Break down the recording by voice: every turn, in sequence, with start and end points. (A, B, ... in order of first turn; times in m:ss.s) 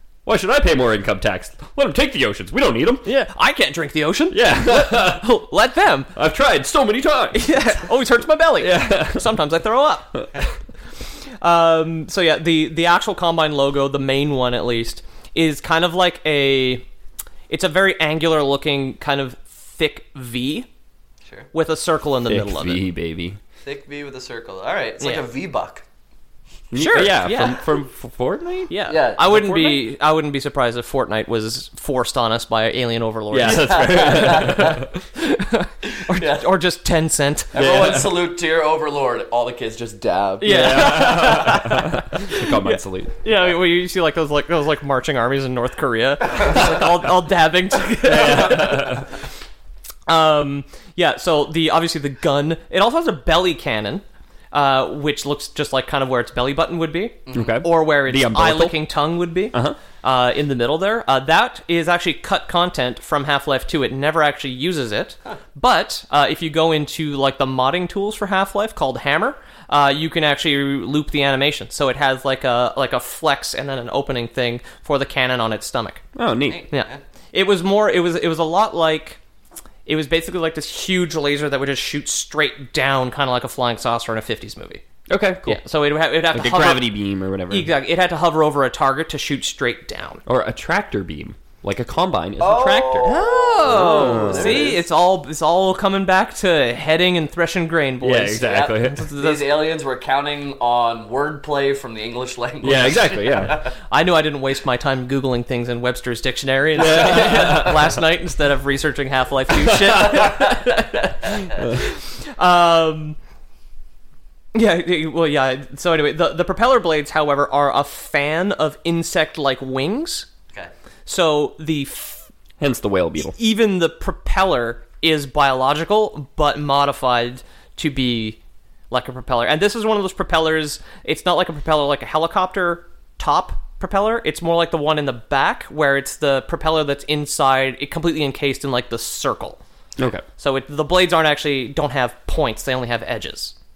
0:00.3-0:03.1 A
0:03.0-0:06.1 B
0:04.3-0:05.4 A
0:06.2-0:07.7 A
0:07.3-0:10.2 B
0:08.6-0:09.4 A
0:11.4-0:16.8 B
0:17.5-0:20.7 B
0:21.5-0:22.9 B
0:22.3-0:23.4 A
0:23.6-0:25.8 C
0:26.7-0:29.8 A
0:26.7-0:27.6 B
0:28.7-0:37.5 B
0:28.9-0:29.7 C
0:33.3-0:35.0 A
0:33.4-0:34.8 C
0:36.1-0:36.5 C
0:37.5-0:38.2 A
0:37.5-0:41.3 C
0:40.4-0:49.0 B
0:40.4-0:43.2 A
0:48.0-0:49.1 A
0:50.1-1:16.0 B
0:57.3-0:57.6 C
0:57.3-0:58.8 A
1:16.2-1:16.7 A
1:16.5-1:17.0 C
1:16.7-1:19.2 B
1:19.9-1:24.8 B
1:25.1-1:25.6 A
1:25.4-1:30.2 B
1:26.3-1:27.8 A
1:30.3-1:34.8 A
1:32.4-1:34.8 C
1:33.0-1:39.6 B
1:38.0-1:39.0 A
1:38.4-1:43.7 C
1:42.6-1:43.7 A
1:43.9-1:53.2 B
1:46.8-1:47.9 A
1:46.9-1:47.6 C
1:49.6-1:50.3 A
1:54.5-2:00.3 B
2:01.1-2:02.3 B
2:02.6-2:03.4 A
2:03.4-2:08.4 B
2:08.9-2:19.6 B
2:20.0-2:20.3 A
2:20.4-2:23.5 B